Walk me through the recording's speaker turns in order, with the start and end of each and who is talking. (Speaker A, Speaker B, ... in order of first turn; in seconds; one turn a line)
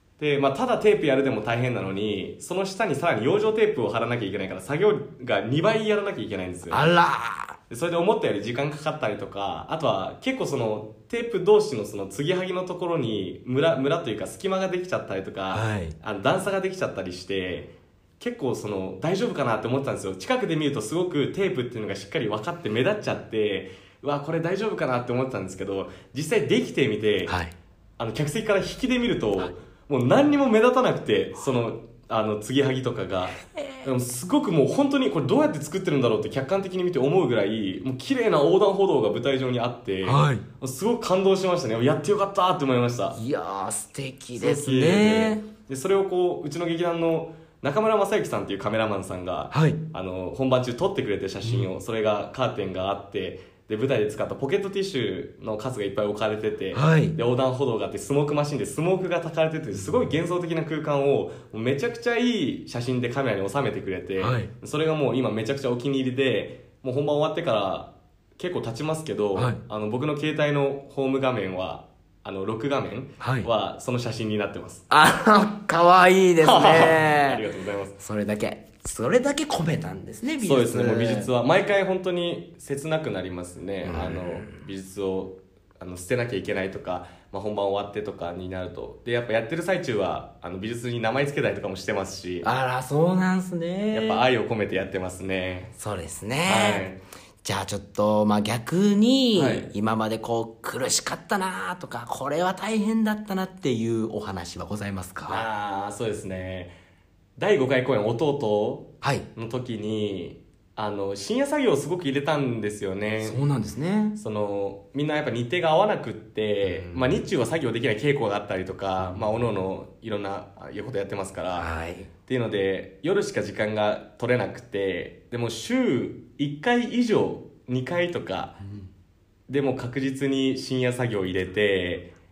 Speaker A: 0.2-6.9
Speaker B: 6.7-7.6
Speaker A: 7.7-27.4
Speaker B: 15.5-15.9
Speaker B: 27.2-27.5
Speaker A: 28.0-43.2
Speaker B: 33.4-33.9
Speaker B: 40.0-40.4
Speaker B: 43.1-45.5
Speaker A: 44.3-74.8
Speaker B: 49.5-49.8
Speaker B: 51.4-51.7
Speaker B: 56.7-57.2
Speaker B: 59.7-60.1
Speaker B: 64.2-64.5
Speaker B: 69.3-69.6
Speaker B: 73.2-73.5
Speaker B: 74.9-77.4
Speaker A: 76.4-78.0
Speaker B: 78.0-81.3
Speaker A: 80.4-92.5
Speaker B: 83.8-84.7
Speaker B: 92.4-94.2
Speaker A: 93.9-95.7
Speaker B: 95.8-96.9
Speaker A: 96.4-97.0
Speaker B: 97.4-105.4
Speaker A: 99.3-99.7
Speaker A: 105.3-106.7
Speaker A: 107.4-113.4
Speaker B: 109.0-109.3
Speaker B: 113.2-114.2
Speaker A: 114.2-121.7
Speaker B: 116.6-117.3
Speaker B: 119.0-119.5
Speaker B: 121.5-122.1
Speaker A: 122.2-128.6
Speaker A: 129.5-132.1